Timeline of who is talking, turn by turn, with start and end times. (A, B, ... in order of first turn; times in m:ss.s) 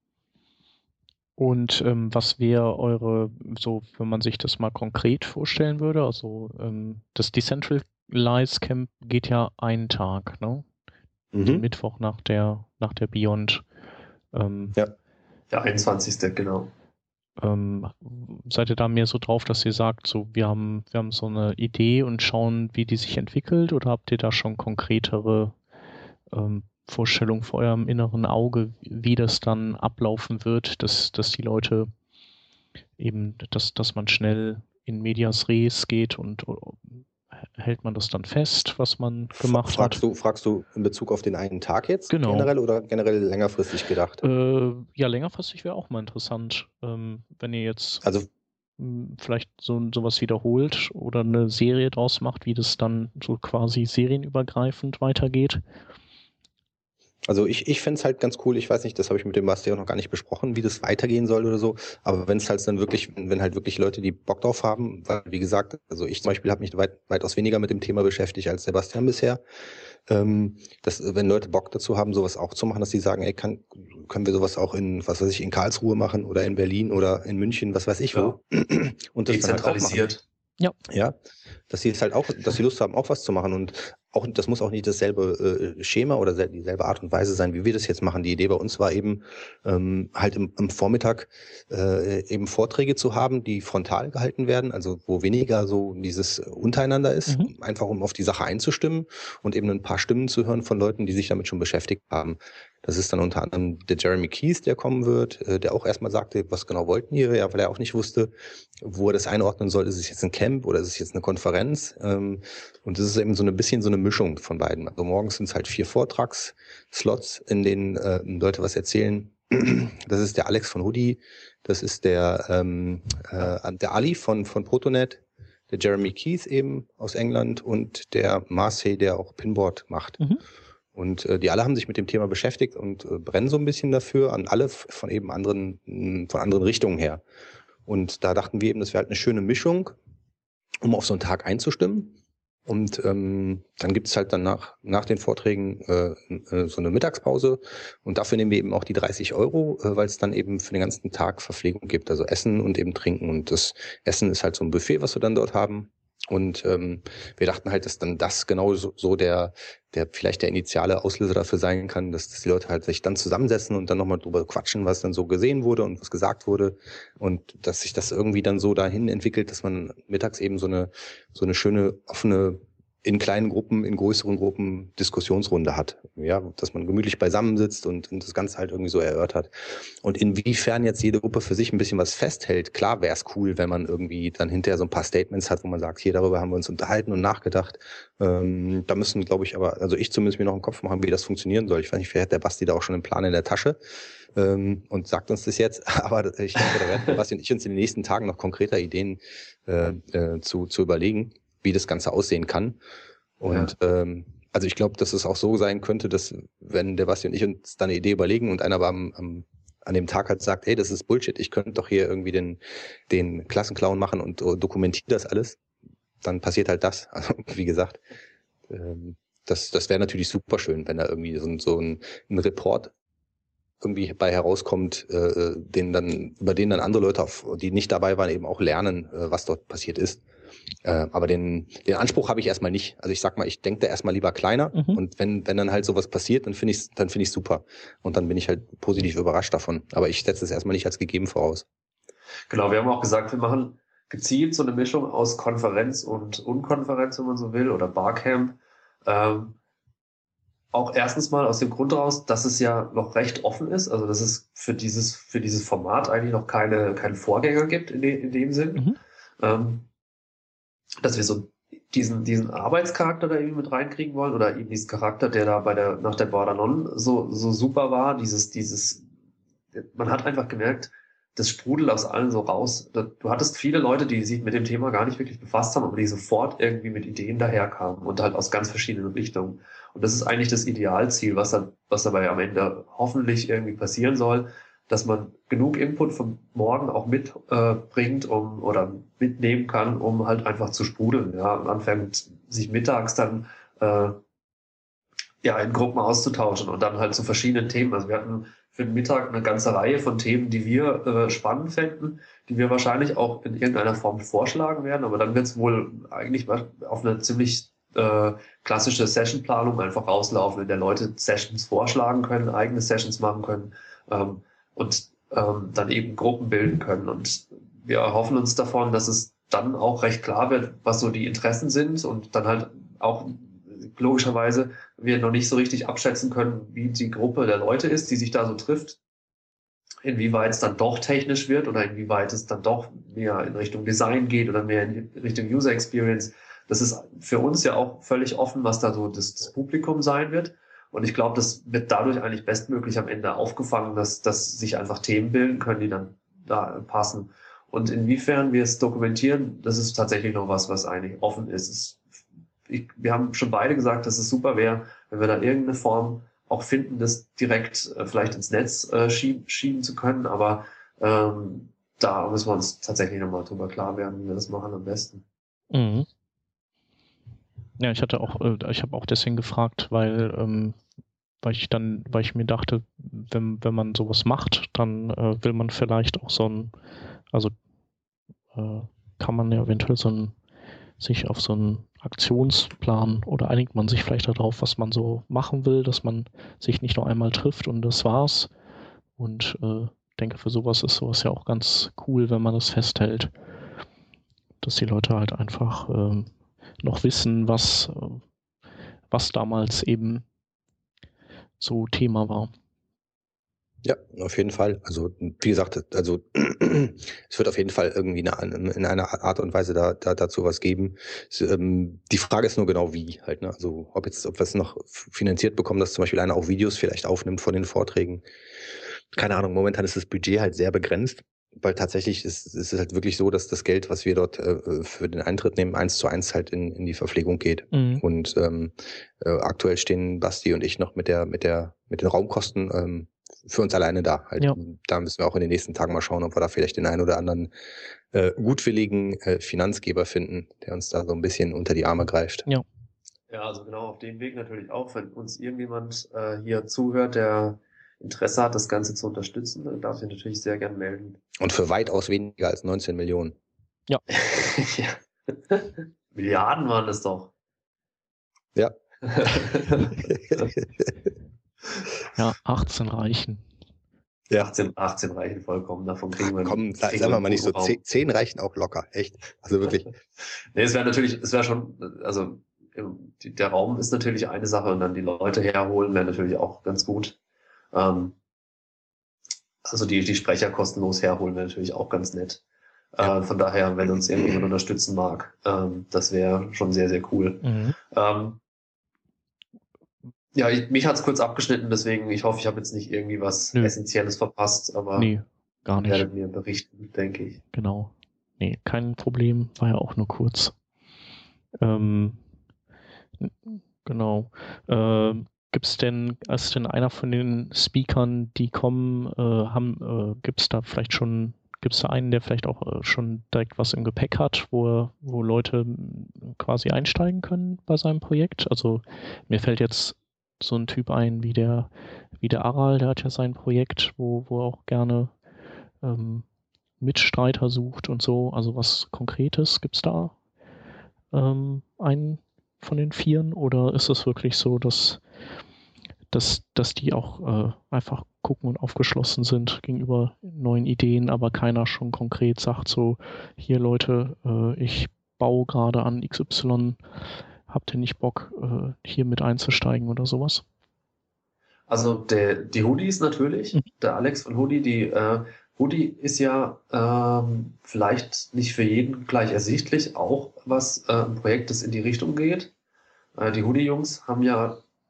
0:01.4-0:10.7 A
0:11.3-0:11.6 B
0:11.4-0:13.6 A
0:14.3-0:14.8 A
0:15.5-0:16.7 C
0:17.4-0:25.6 A
0:26.3-0:31.9 A
0:33.0-0:37.0 A
0:37.6-0:40.0 A
0:39.4-0:44.2 B
0:42.1-0:42.5 A
0:44.2-0:48.0 A
0:48.0-0:48.3 B
0:48.8-0:55.6 A
0:57.3-1:09.4 B
1:10.1-1:20.1 B
1:19.3-1:20.2 C
1:20.9-1:21.2 B
1:21.7-2:10.2 B
1:37.3-1:37.5 A
2:11.0-2:17.2 B
2:17.9-2:20.0 B
2:20.8-3:13.8 B
3:14.4-3:22.8 B
3:23.4-3:35.6 B
3:23.5-3:23.7 C
3:36.2-3:38.0 B
3:38.7-3:42.9 B
3:43.8-3:50.2 B
3:50.8-4:01.7 B
3:54.7-3:55.0 A
4:02.5-4:09.6 C
4:10.7-4:18.9 C
4:19.4-4:19.9 C
4:21.0-4:29.0 C
4:29.8-4:54.2 C
4:55.4-5:29.0 C
5:30.0-5:52.0 C
5:52.7-6:05.2 C
6:05.7-6:06.1 A
6:07.8-6:10.8 A
6:11.4-6:16.7 A
6:18.6-6:20.4 A
6:21.0-6:28.5 A
6:29.2-6:33.3 A
6:34.6-6:36.3 A
6:36.8-6:38.2 A
6:39.1-6:40.2 A
6:41.6-6:42.5 A
6:43.8-6:58.2 B
6:59.1-7:17.5 B
7:07.7-7:08.0 A
7:18.1-7:22.5 B
7:23.3-7:31.2 C
7:31.4-7:33.4 B
7:34.1-7:37.3 C
7:38.6-7:41.1 B
7:39.0-7:40.5 C
7:42.2-7:43.4 A
7:44.5-7:47.8 C
7:46.2-7:49.9 B
7:50.5-7:57.2 C
7:57.7-7:58.2 C
7:59.6-8:02.4 C
8:03.0-8:08.4 C
8:07.4-8:07.8 A
8:10.3-8:15.1 C
8:15.0-8:16.1 A
8:15.8-8:17.4 C
8:17.5-8:20.5 A
8:21.6-8:22.2 A
8:23.2-8:45.1 A
8:45.8-8:46.2 A
8:46.8-8:50.2 A
8:51.1-8:55.0 A
8:56.1-9:06.8 A
9:07.5-9:10.4 A
9:11.7-9:22.5 C
9:23.2-9:24.6 C